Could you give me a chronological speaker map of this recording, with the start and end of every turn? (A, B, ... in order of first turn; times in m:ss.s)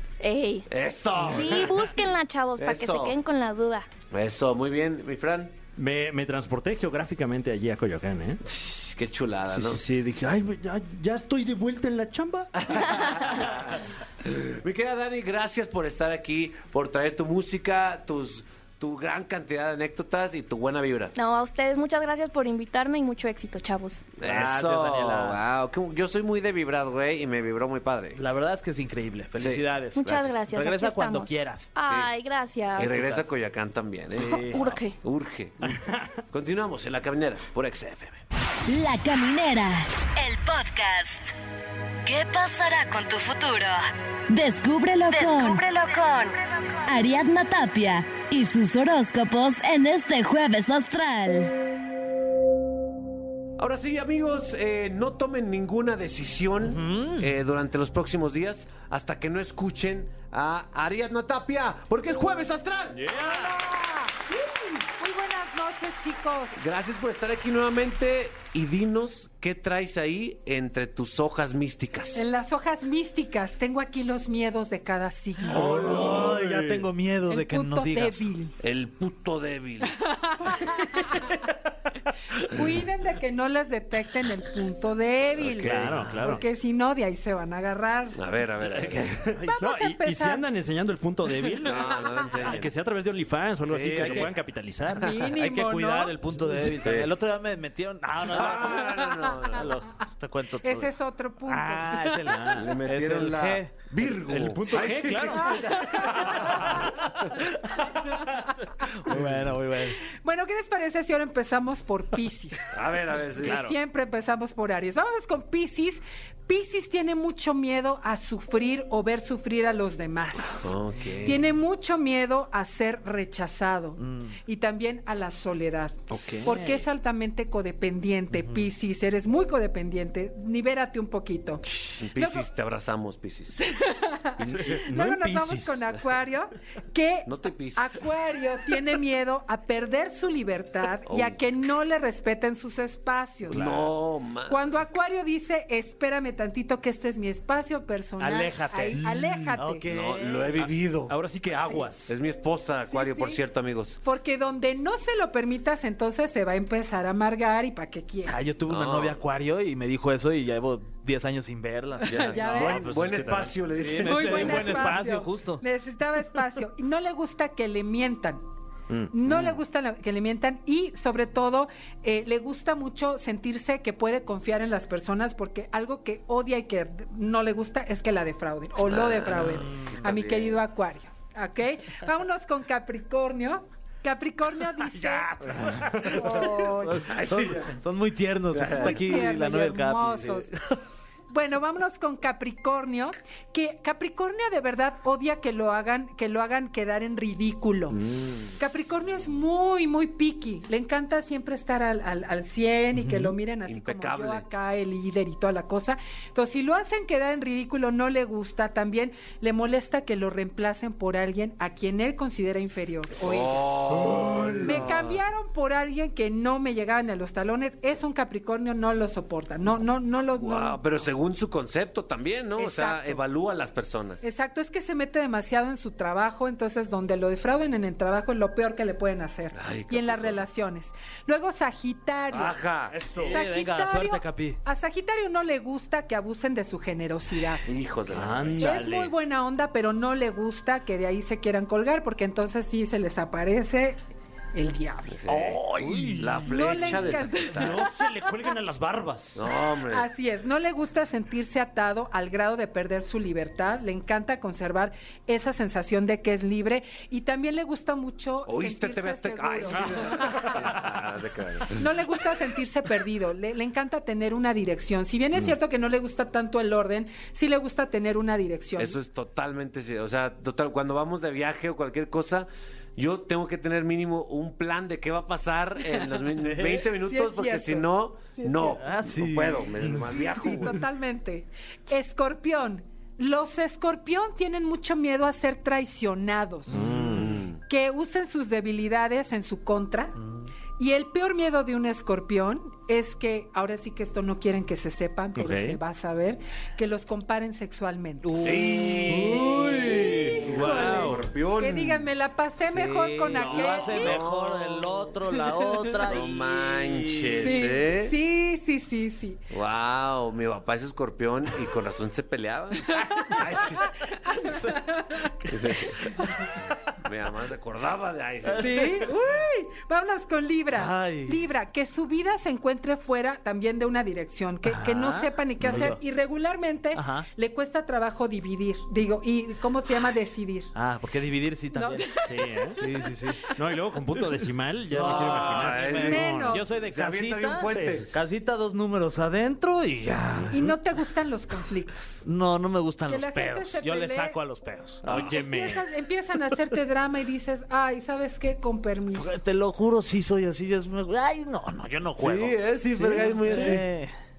0:00.2-0:00.7 A
0:00.7-0:01.9 B
0:01.3-0:03.9 A
0:02.6-0:03.1 B
0:04.1-0:05.5 B
0:05.8-0:08.4 C
0:08.4-0:09.8 B
0:09.5-0:12.5 C
0:12.6-0:21.1 B
0:21.2-0:24.1 A
0:24.2-0:28.2 B
0:24.2-0:25.4 D
0:28.2-0:31.7 D
0:29.3-0:29.6 B
0:29.9-0:33.0 A
0:32.8-0:33.2 D
0:32.8-0:35.8 B
0:34.1-0:34.8 D
0:34.2-0:35.0 A
0:36.3-0:38.2 B
0:38.6-0:41.3 E
0:42.0-0:51.5 E
0:53.6-1:03.0 B
0:56.6-0:57.3 D
1:03.0-1:03.6 C
1:03.1-1:06.6 F
1:06.5-1:12.2 B
1:12.1-1:15.6 F
1:15.5-1:18.3 D
1:15.5-1:16.8 C
1:15.6-1:16.3 B
1:17.3-1:18.5 F
1:18.6-1:20.0 B
1:20.4-1:21.3 F
1:22.4-1:28.2 F
1:25.4-1:26.0 B
1:25.6-1:26.4 C
1:25.7-1:26.3 D
1:28.1-1:29.2 B
1:28.8-1:35.3 C
1:29.4-1:30.5 F
1:31.4-1:32.3 F
1:31.6-1:32.7 B
1:33.6-1:34.3 B
1:33.9-1:34.3 D
1:34.9-1:36.2 F
1:35.4-1:40.9 D
1:36.8-1:37.1 B
1:38.3-1:39.7 B
1:40.6-1:42.4 F
1:41.4-1:43.7 D
1:42.5-1:46.9 B
1:44.0-1:46.9 C
1:45.5-1:46.4 F
1:49.0-1:50.0 D
1:50.1-1:52.6 F
1:52.7-1:53.6 B
1:53.4-2:11.6 F
1:53.4-1:53.7 C
2:00.6-2:01.4 B
2:04.0-2:04.3 D
2:06.1-2:06.8 C
2:08.4-2:08.7 D
2:11.6-2:13.6 B
2:12.2-2:12.5 F
2:13.5-2:23.6 F
2:14.4-2:14.8 B
2:14.5-2:15.9 C
2:17.2-2:18.0 B
2:21.0-2:21.4 B
2:23.5-2:24.7 B
2:23.5-2:23.9 C
2:24.5-2:29.8 F
2:28.2-2:30.7 D
2:28.3-2:29.6 C
2:29.9-2:31.2 B
2:31.1-2:32.1 C
2:31.8-2:34.0 B
2:32.9-2:33.4 F
2:34.0-2:38.4 F
2:38.2-2:42.7 D
2:38.7-2:39.2 B
2:42.0-2:42.9 F
2:42.0-2:44.8 B
2:42.4-2:43.6 C
2:43.8-2:45.6 D
2:44.0-2:48.4 F
2:48.9-2:49.4 C
2:49.1-3:05.3 F
2:49.2-2:49.6 B
2:58.8-3:00.6 B
2:59.4-2:59.9 D
3:04.8-3:06.6 C
3:05.5-3:10.4 D
3:06.1-3:07.0 F
3:07.0-3:07.8 B
3:08.5-3:09.2 B
3:08.7-3:10.5 F
3:11.3-3:18.0 F
3:17.9-3:18.5 B
3:18.6-3:33.7 F
3:23.0-3:23.3 C
3:23.6-3:24.5 B
3:33.1-3:34.9 B
3:34.0-3:35.0 C
3:34.6-3:40.8 F
3:40.4-3:44.2 B
3:42.6-3:43.2 F
3:44.2-3:52.6 F
3:49.5-3:50.4 B
3:52.3-3:52.9 B
3:52.9-3:53.4 C
3:53.2-3:54.6 D
3:53.2-3:57.6 F
3:57.6-3:58.7 B
3:58.1-3:59.1 C
3:58.6-4:04.0 F
4:04.5-4:05.2 F
4:05.1-4:07.8 B
4:05.3-4:06.5 D
4:05.9-4:06.2 C
4:06.4-4:08.4 F
4:06.9-4:09.4 C
4:09.4-4:10.1 B
4:09.9-4:20.7 F
4:18.4-4:22.0 B
4:20.4-4:20.8 C
4:21.7-4:29.0 F
4:28.8-4:40.8 B
4:36.4-4:36.8 D
4:36.9-4:38.8 F
4:38.8-4:39.7 D
4:40.1-4:46.7 F
4:46.7-4:47.2 D
4:46.7-4:47.3 C
4:47.1-4:47.6 B
4:47.7-4:50.1 F
4:50.8-4:58.3 F
4:55.4-4:55.8 C
4:58.2-5:01.0 D
4:58.4-5:02.1 B
4:59.0-5:01.2 C
5:00.6-5:01.0 F
5:01.6-5:04.2 F
5:02.6-5:07.6 D
5:03.3-5:03.7 C
5:03.4-5:04.9 B
5:05.5-5:06.0 F
5:06.0-5:08.1 B
5:07.4-5:09.4 F
5:09.5-5:13.8 B
5:12.9-5:13.9 F
5:14.3-5:15.9 D
5:14.4-5:15.2 F
5:15.5-5:16.0 B
5:17.0-5:19.0 B
5:18.4-5:19.1 D
5:18.6-5:30.7 F
5:20.7-5:21.4 D
5:24.6-5:26.0 D
5:26.9-5:27.3 D
5:30.7-5:32.0 D
5:31.7-5:32.7 F
5:32.2-5:32.8 C
5:32.7-5:33.4 D
5:33.6-5:36.6 C
5:34.9-5:40.5 D
5:35.0-5:36.2 B
5:36.0-5:36.6 F
5:36.8-5:38.1 B
5:37.7-5:38.0 C
5:40.5-5:42.2 F
5:42.2-5:45.0 D
5:43.0-5:44.4 F
5:45.0-5:45.8 C
5:45.1-5:49.3 F
5:49.1-5:54.1 D
5:52.2-5:53.8 B